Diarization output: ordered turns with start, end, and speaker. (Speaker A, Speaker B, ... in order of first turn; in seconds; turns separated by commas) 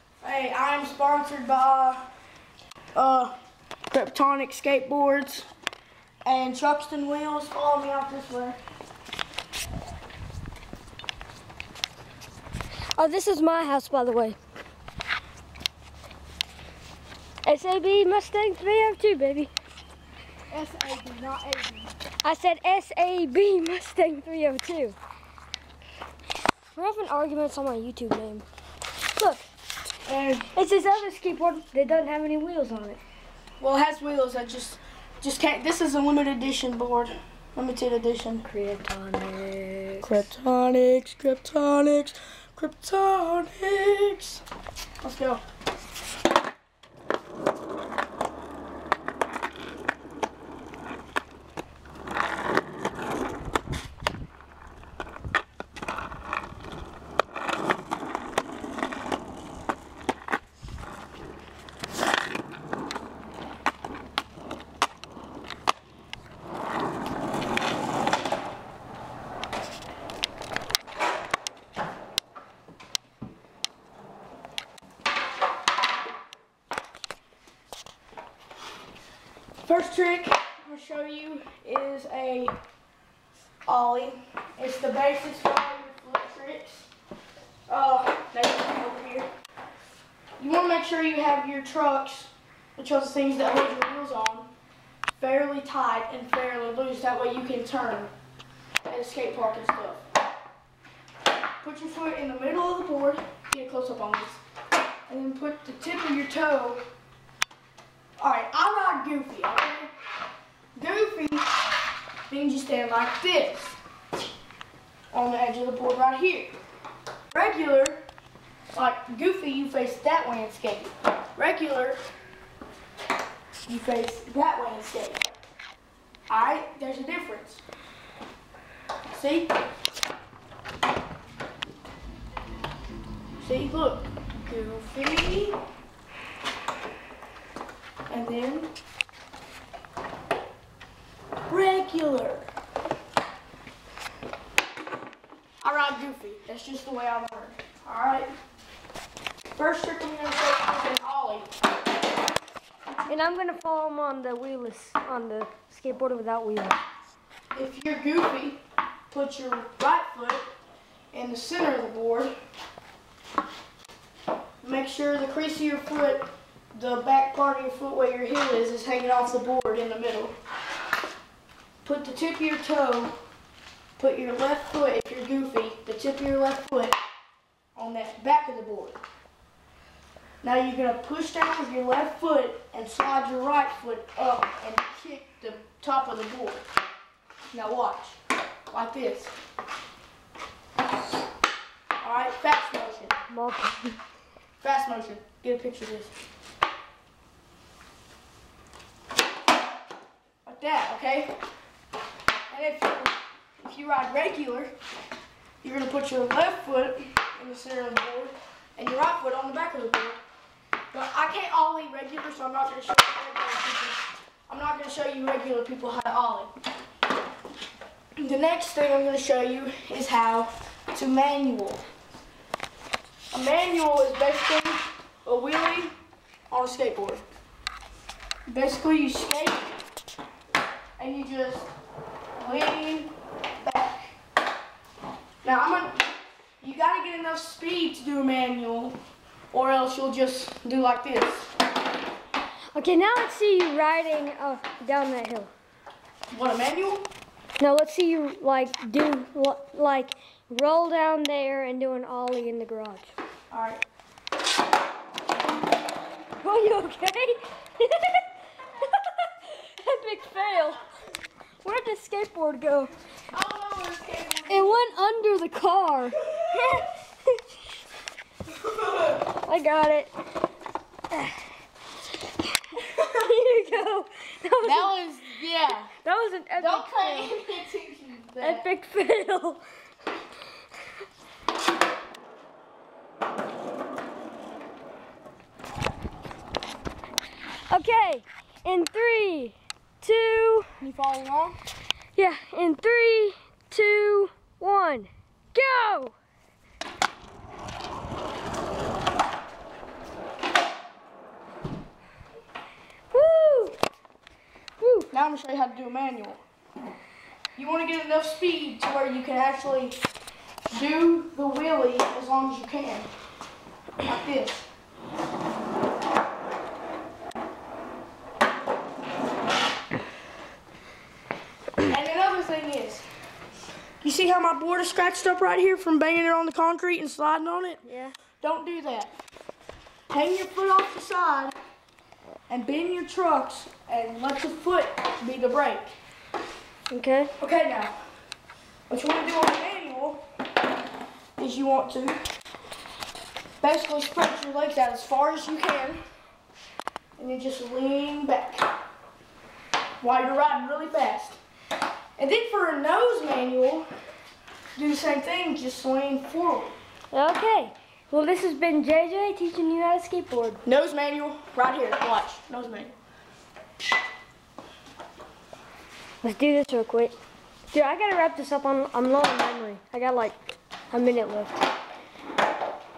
Speaker A: 0.2-2.1, Speaker A: 3.0-3.4, Speaker A: 3.9-5.5, Speaker A: 6.2-8.6, Speaker B: 13.0-14.4, Speaker B: 17.4-19.5, Speaker A: 20.5-21.9, Speaker B: 22.2-25.0, Speaker B: 26.7-28.5, Speaker B: 29.1-29.5, Speaker A: 30.1-30.5, Speaker B: 30.5-33.0, Speaker A: 33.6-38.5, Speaker B: 38.5-40.3, Speaker A: 40.0-44.4, Speaker A: 45.0-45.4, Speaker A: 79.6-82.6, Speaker A: 83.7-86.9, Speaker A: 87.7-89.3, Speaker A: 90.4-94.5, Speaker A: 95.2-98.1, Speaker A: 98.9-100.0, Speaker A: 101.6-104.4, Speaker A: 105.1-106.8, Speaker A: 108.2-109.9, Speaker A: 110.8-111.5, Speaker A: 112.3-113.8, Speaker A: 115.1-116.5, Speaker A: 117.3-118.0, Speaker A: 118.7-122.0, Speaker A: 123.7-125.2, Speaker A: 126.3-127.6, Speaker A: 129.1-129.6, Speaker A: 133.4-135.6, Speaker A: 138.1-138.7, Speaker A: 141.5-142.5, Speaker A: 145.6-148.3, Speaker A: 149.6-151.5, Speaker B: 153.1-156.8, Speaker A: 157.5-160.5, Speaker A: 161.1-162.3, Speaker A: 164.6-170.4, Speaker A: 171.8-173.2, Speaker A: 174.0-177.0, Speaker A: 177.8-179.0, Speaker A: 180.4-186.7, Speaker A: 187.5-188.2, Speaker A: 188.7-189.3, Speaker A: 192.0-193.2, Speaker B: 193.3-194.0, Speaker A: 194.6-196.1, Speaker A: 200.4-201.4, Speaker A: 202.5-204.7, Speaker A: 205.6-210.2, Speaker A: 210.9-216.5, Speaker A: 218.2-221.9, Speaker A: 223.3-226.0, Speaker A: 226.5-227.2, Speaker A: 228.5-229.8, Speaker A: 231.0-231.7, Speaker A: 232.4-234.1, Speaker A: 235.4-236.1, Speaker A: 236.6-239.0, Speaker A: 239.5-241.5, Speaker B: 242.7-245.5, Speaker A: 246.3-247.1, Speaker B: 247.6-253.1, Speaker A: 253.5-253.8, Speaker B: 256.4-258.2, Speaker B: 258.8-260.8, Speaker B: 261.6-262.9, Speaker A: 263.3-264.8, Speaker B: 264.5-267.4, Speaker A: 266.2-266.8, Speaker A: 268.5-269.2, Speaker B: 269.4-270.1, Speaker B: 271.1-271.4, Speaker B: 272.6-275.0, Speaker A: 274.6-275.9, Speaker B: 275.7-277.6, Speaker A: 276.6-278.7, Speaker B: 278.4-279.6, Speaker B: 287.7-290.7, Speaker A: 290.8-291.6, Speaker B: 292.1-296.1, Speaker B: 303.1-303.8, Speaker B: 304.8-305.1, Speaker A: 305.1-306.4, Speaker A: 307.6-310.0, Speaker A: 310.7-313.1, Speaker A: 314.0-314.7, Speaker A: 321.9-323.1, Speaker A: 324.0-327.8, Speaker B: 327.9-328.1, Speaker A: 328.4-329.1, Speaker A: 330.1-331.5, Speaker A: 332.5-335.9, Speaker B: 336.9-337.3, Speaker A: 337.4-338.0, Speaker A: 338.9-340.2, Speaker A: 341.4-342.2, Speaker A: 343.6-346.0, Speaker A: 347.2-348.7, Speaker A: 350.0-351.4, Speaker A: 352.2-353.9, Speaker A: 354.8-356.8, Speaker B: 357.1-360.6, Speaker A: 360.6-362.9, Speaker B: 366.2-367.2, Speaker B: 367.7-370.4, Speaker B: 370.9-371.6